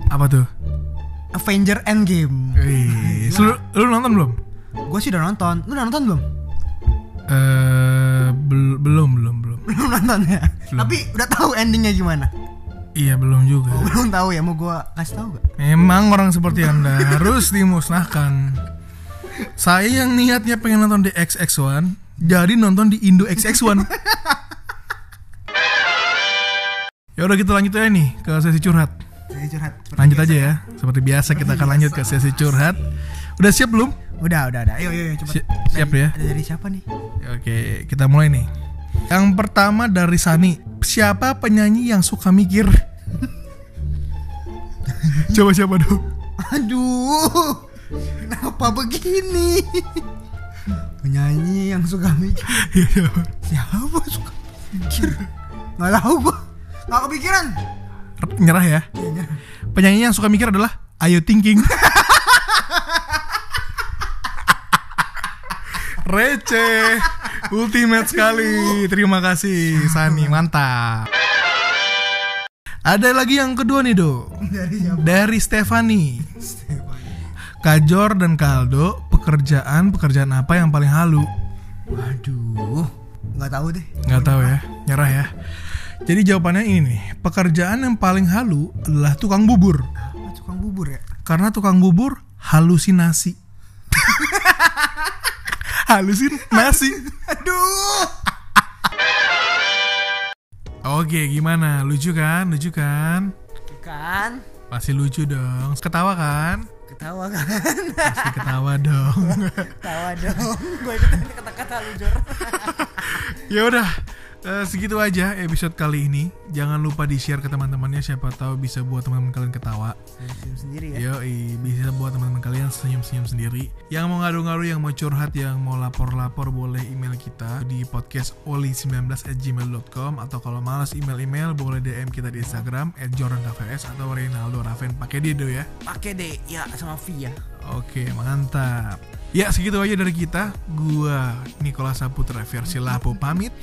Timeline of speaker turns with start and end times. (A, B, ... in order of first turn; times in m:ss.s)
0:00.1-0:00.5 A
0:01.3-0:03.6 B
0:02.5-0:04.4 A
0:04.8-0:06.3 B
0:07.3-0:09.6 A
0:09.6-0:12.3 B
0:12.9-0:13.9 A
0:13.7-0:15.4 B
0:15.6-0:18.6 A
0:17.0-0:17.4 B
0:19.6-0:23.9 A
0:23.5-0:24.4 B
0:27.2-0:28.9 A
0:29.3-0:30.6 B
0:30.0-0:32.8 A
0:31.3-0:32.5 B
0:33.4-0:34.0 A
0:34.2-0:36.8 B
0:35.3-0:36.2 A
0:37.2-0:38.5 A
0:39.1-0:42.8 A
0:44.9-0:45.4 B
0:45.0-0:46.0 A
0:46.4-0:50.1 B
0:51.0-0:52.7 B
0:52.5-0:53.3 A
0:53.4-0:55.2 B
0:54.9-0:55.2 A
0:55.8-0:57.6 B
0:58.2-0:58.9 A
0:58.9-0:59.4 B
0:59.7-1:01.9 A
1:01.7-1:03.2 B
1:05.7-1:11.1 A
1:06.9-1:07.4 B
1:08.0-1:08.8 B
1:09.7-1:10.4 B
1:12.8-1:16.3 A
1:14.4-1:15.3 B
1:16.4-1:17.3 B
1:17.6-1:21.3 A
1:21.9-1:24.6 B
1:24.0-1:25.3 A
1:26.0-1:29.9 A
1:30.0-1:31.1 B
1:31.2-1:33.4 A
1:33.9-1:35.3 B
1:35.5-1:37.0 A
1:36.3-1:38.3 B
1:40.8-1:43.3 A
1:43.7-1:44.4 B
1:44.7-1:46.7 A
1:46.9-1:53.3 B
1:48.0-1:50.3 A
1:52.4-2:00.0 A
2:00.2-2:01.0 B
2:00.9-2:15.7 A
2:15.8-2:17.4 B
2:17.6-2:23.5 A